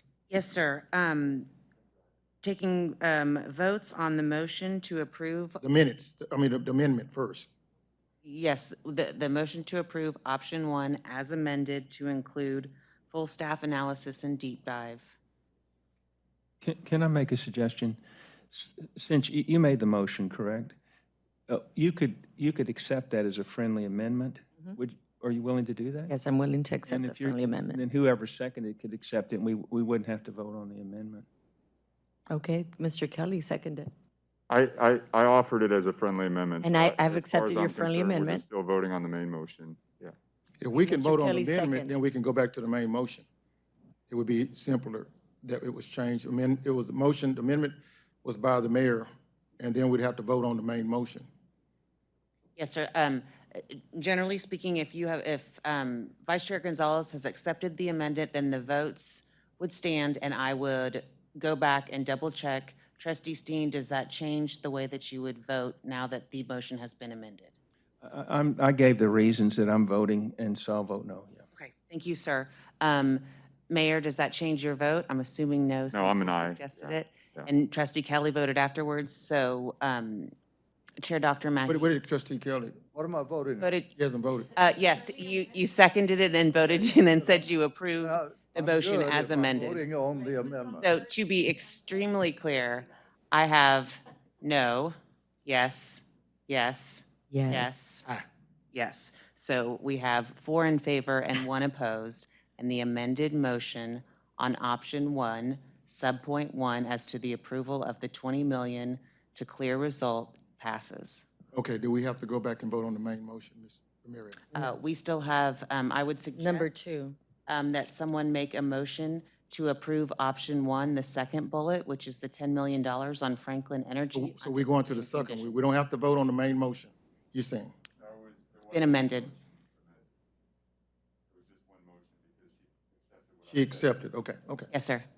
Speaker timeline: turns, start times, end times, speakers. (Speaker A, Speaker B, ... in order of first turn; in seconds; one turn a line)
Speaker A: 0.3-1.5
Speaker A: 2.4-5.6
Speaker B: 5.6-7.5
Speaker A: 8.2-15.2
Speaker C: 16.6-18.0
Speaker C: 18.5-20.8
Speaker C: 21.5-26.1
Speaker D: 26.1-27.8
Speaker C: 26.9-31.2
Speaker D: 32.3-33.9
Speaker E: 34.5-40.1
Speaker D: 36.6-38.4
Speaker B: 40.6-43.2
Speaker D: 40.7-42.0
Speaker B: 44.1-49.1
Speaker B: 49.6-51.3
Speaker A: 52.5-67.5
Speaker C: 68.0-71.4
Speaker A: 71.5-80.3
Speaker E: 75.9-77.5
Speaker A: 81.0-81.9
Speaker B: 81.7-82.8
Speaker F: 82.9-83.7
Speaker A: 83.6-83.9
Speaker B: 83.9-84.5
Speaker A: 84.5-89.9
Speaker F: 88.0-90.8
Speaker A: 90.8-98.0
Speaker D: 97.3-97.8
Speaker A: 98.7-111.2
Speaker B: 111.5-114.4
Speaker A: 114.5-116.9
Speaker D: 116.3-117.2
Speaker A: 117.5-125.6
Speaker B: 124.1-127.7
Speaker E: 128.0-130.1
Speaker A: 128.7-129.3
Speaker E: 131.3-133.9
Speaker B: 133.5-134.7
Speaker A: 134.7-135.0